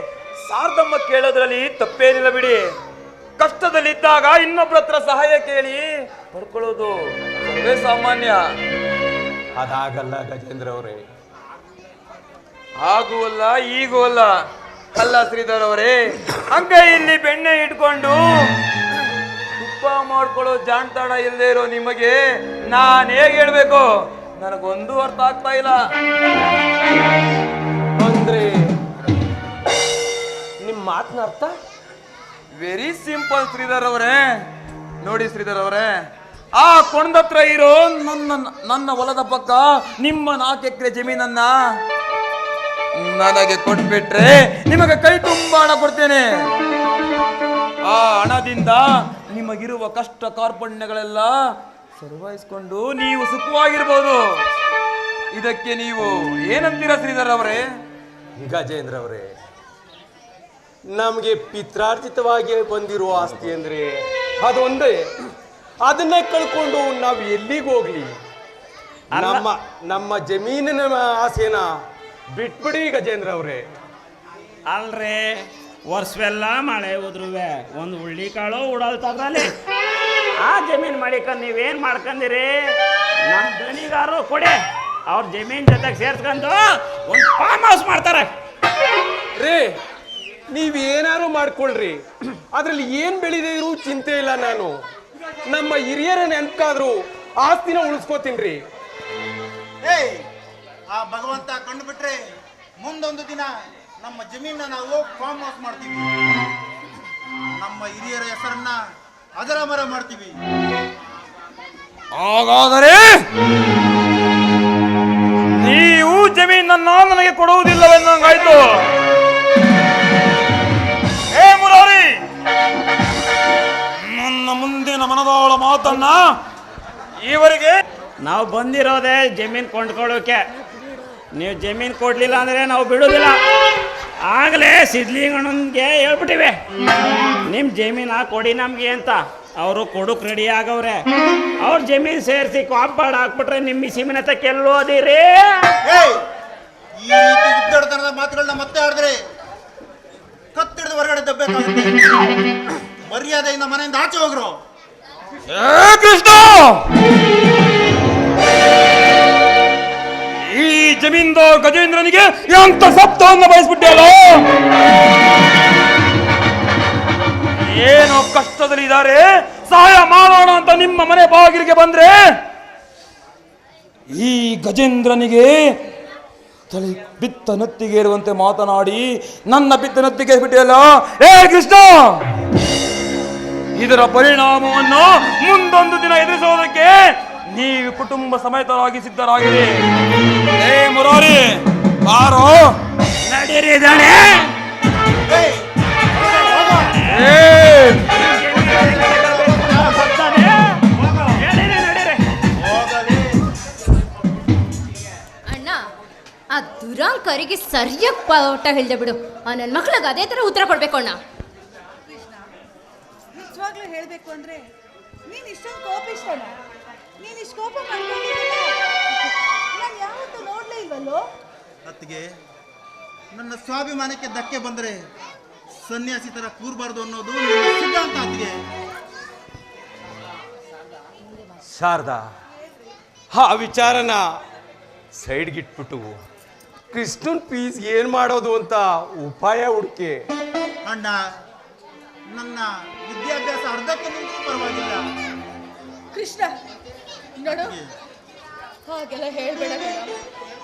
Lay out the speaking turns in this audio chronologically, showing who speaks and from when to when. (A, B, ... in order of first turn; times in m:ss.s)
0:00.5-0:02.6 A
0:03.4-0:08.4 A
0:09.6-0:11.0 B
0:12.8-0:14.3 A
0:15.0-0:18.2 A
0:19.6-0:22.2 A
0:22.7-0:23.9 A
0:24.4-0:25.8 A
0:28.0-0:28.5 B
0:30.6-0:31.6 B
0:32.5-0:34.2 A
0:35.0-0:35.9 A
0:36.6-0:41.5 A
0:43.0-0:46.2 A
0:47.9-0:51.3 A
0:52.0-0:54.2 A
0:55.3-0:57.6 A
0:58.4-0:59.3 B
1:00.9-1:05.1 B
1:05.8-1:08.1 B
1:09.1-1:09.5 C
1:09.2-1:11.7 B
1:12.4-1:13.6 B
1:14.7-1:19.5 C
1:20.4-1:22.6 C
1:23.2-1:24.6 C
1:25.1-1:28.3 C
1:29.4-1:29.7 B
1:30.5-1:34.8 B
1:35.4-1:38.6 B
1:39.8-1:40.2 D
1:40.9-1:42.2 D
1:42.8-1:46.1 D
1:47.6-1:48.8 D
1:49.4-1:50.4 D
1:52.1-1:53.2 A
1:55.6-1:58.8 A
2:01.3-2:02.2 A
2:04.0-2:06.2 A
2:07.2-2:07.8 A
2:08.2-2:10.4 C
2:11.4-2:13.4 C
2:14.3-2:16.6 C
2:17.4-2:21.0 C
2:21.6-2:25.7 C
2:25.8-2:26.2 D
2:27.0-2:29.2 D
2:30.6-2:32.2 D
2:33.1-2:34.6 D
2:35.5-2:36.8 A
2:40.4-2:44.4 A
2:47.6-2:52.2 A
2:54.1-2:55.5 A
2:56.7-3:02.2 A
3:03.8-3:09.7 A
3:10.6-3:12.7 A
3:13.2-3:14.5 C
3:15.3-3:17.0 D
3:16.3-3:17.3 C
3:17.1-3:18.2 A
3:18.2-3:20.8 C
3:18.4-3:20.4 D
3:21.0-3:21.4 D
3:21.4-3:22.2 C
3:22.6-3:23.4 D
3:25.5-3:25.8 E
3:26.5-3:31.2 E
3:32.1-3:32.4 F
3:33.4-3:34.6 F
3:35.3-3:36.5 F
3:37.2-3:38.8 F
3:39.7-3:41.2 F
3:41.9-3:42.3 D
3:43.3-3:45.0 D
3:45.8-3:48.6 D
3:51.6-3:52.3 B
3:53.3-3:54.2 B
3:55.2-3:56.2 B
3:56.9-4:00.2 B
4:00.8-4:01.1 D
4:02.3-4:05.0 D
4:06.1-4:06.5 F
4:07.4-4:07.7 F
4:07.5-4:07.9 D
4:08.9-4:10.1 F